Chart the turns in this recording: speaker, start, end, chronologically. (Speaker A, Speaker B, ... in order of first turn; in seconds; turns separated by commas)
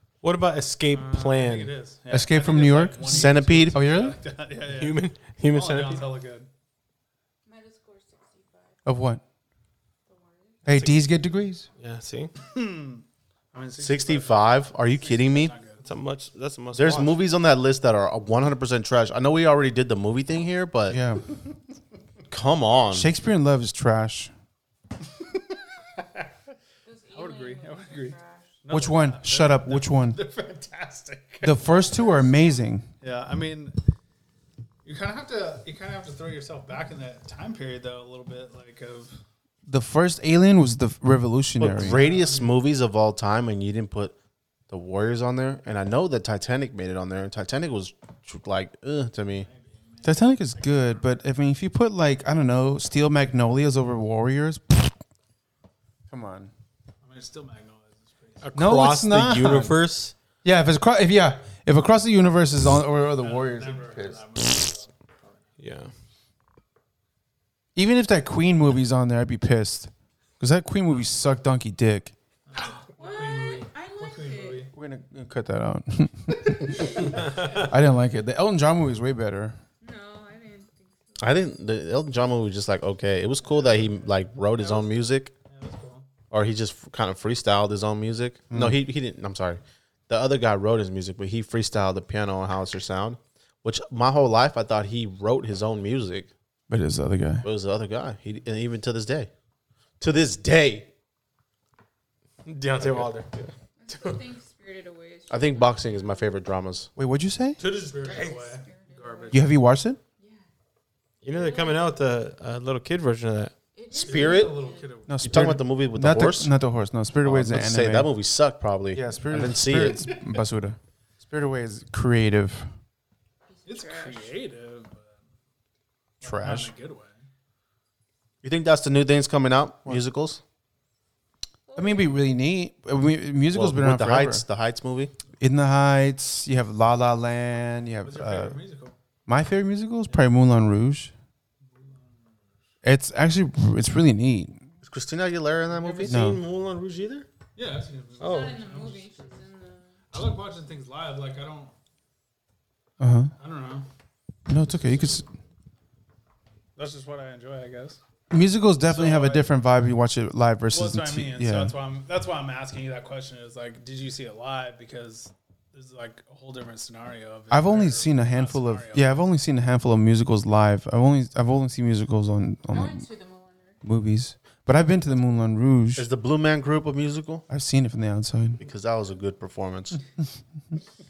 Speaker A: 0.2-1.7, Speaker B: 0.9-6.5, Speaker C: 2.1-4.2, Speaker D: 3.0-4.0, Speaker A: 4.7-6.0, Speaker E: 7.5-8.8, Speaker C: 8.8-9.2, Speaker E: 10.1-10.7, Speaker C: 10.6-11.7, Speaker A: 11.8-12.3, Speaker B: 12.4-15.8, Speaker D: 13.8-15.5, Speaker A: 15.8-17.1, Speaker D: 16.7-21.0, Speaker C: 20.9-21.2, Speaker D: 22.3-23.1, Speaker C: 22.9-24.3, Speaker E: 26.8-28.5, Speaker B: 27.1-31.8, Speaker C: 28.7-30.2, Speaker C: 31.4-32.9, Speaker E: 31.7-32.6, Speaker B: 33.0-33.8, Speaker B: 34.8-39.2, Speaker C: 39.7-42.0, Speaker D: 41.6-44.1, Speaker B: 41.9-42.5, Speaker D: 44.7-49.5, Speaker B: 49.4-51.0, Speaker C: 50.0-55.0, Speaker C: 56.1-56.5, Speaker B: 57.0-58.5, Speaker A: 58.4-60.1, Speaker C: 58.5-59.7, Speaker C: 60.4-64.7, Speaker B: 63.2-65.5, Speaker A: 65.6-65.9, Speaker C: 67.7-72.1, Speaker B: 72.5-74.7, Speaker E: 73.0-74.7, Speaker C: 74.7-79.6, Speaker B: 77.1-77.6, Speaker E: 79.8-81.3, Speaker D: 81.2-85.3, Speaker B: 83.4-84.9, Speaker B: 85.5-86.1, Speaker D: 86.3-96.3, Speaker C: 88.5-88.8, Speaker C: 96.7-97.5, Speaker D: 97.4-99.3, Speaker D: 100.0-100.9, Speaker A: 102.5-104.2, Speaker E: 103.8-106.3, Speaker D: 105.3-106.9, Speaker C: 107.0-107.6, Speaker A: 107.6-108.4, Speaker B: 107.6-109.5, Speaker E: 108.0-109.4, Speaker C: 109.3-110.0, Speaker E: 110.2-110.5, Speaker A: 111.2-113.5, Speaker E: 111.3-111.8, Speaker E: 113.8-114.9, Speaker D: 113.9-114.6, Speaker B: 113.9-115.4, Speaker C: 115.1-118.1, Speaker D: 115.2-116.5, Speaker D: 117.2-120.1, Speaker C: 118.9-122.7, Speaker E: 123.5-124.3, Speaker B: 123.7-125.2, Speaker B: 126.2-127.2, Speaker C: 126.2-126.7, Speaker D: 128.4-130.4, Speaker E: 131.7-132.2, Speaker C: 131.8-134.4, Speaker D: 133.5-135.1, Speaker C: 135.4-138.6, Speaker B: 138.0-138.9, Speaker C: 139.3-141.1, Speaker B: 141.8-142.2, Speaker C: 142.8-144.6, Speaker D: 144.8-146.2, Speaker A: 145.8-147.3, Speaker C: 146.0-146.4, Speaker B: 147.6-149.4, Speaker A: 148.2-148.6, Speaker E: 148.2-150.0, Speaker B: 150.1-151.7, Speaker C: 153.0-153.3, Speaker B: 153.4-153.9, Speaker C: 154.5-155.3, Speaker B: 156.8-158.0, Speaker C: 158.3-161.8, Speaker B: 158.8-159.5, Speaker B: 160.7-169.2, Speaker C: 167.5-173.1, Speaker E: 172.7-173.8, Speaker C: 173.8-176.1, Speaker D: 175.9-177.4, Speaker C: 177.5-178.6, Speaker D: 178.6-180.0